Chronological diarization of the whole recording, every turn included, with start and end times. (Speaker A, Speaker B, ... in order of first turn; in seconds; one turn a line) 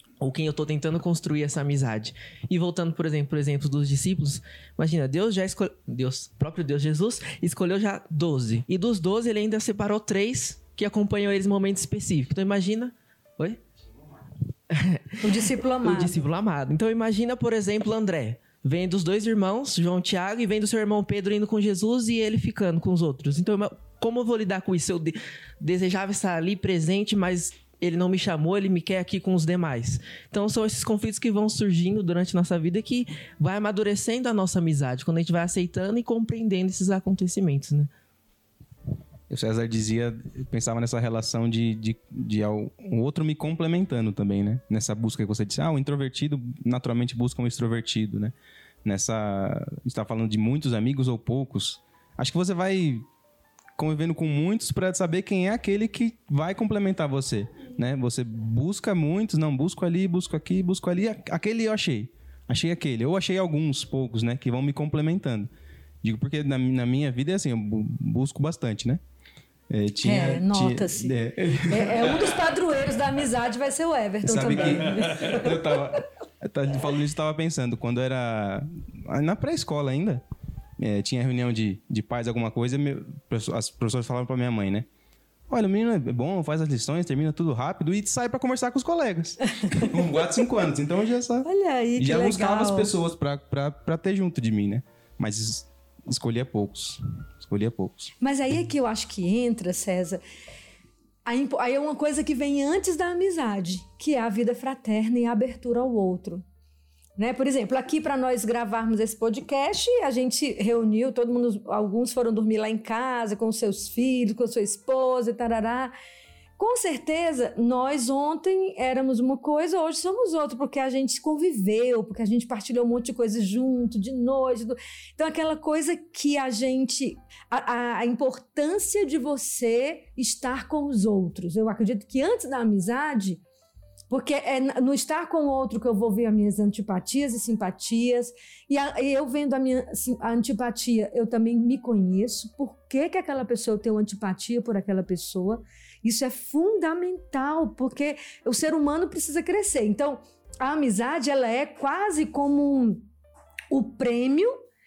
Speaker A: 0.2-13.6
Speaker A: 14.7-15.2
Speaker B: 15.2-16.1
Speaker A: 15.8-37.9
Speaker C: 39.3-53.1
Speaker C: 53.8-65.5
Speaker C: 66.0-69.0
Speaker C: 69.7-72.3
Speaker B: 70.0-75.8
Speaker C: 74.2-80.2
Speaker C: 80.8-84.9
Speaker C: 85.5-98.1
Speaker B: 89.6-90.3
Speaker B: 91.5-92.9
Speaker B: 98.2-100.2
Speaker B: 101.3-106.4
Speaker B: 107.2-115.9
Speaker B: 116.6-133.4
Speaker B: 134.1-153.1
Speaker B: 153.7-154.5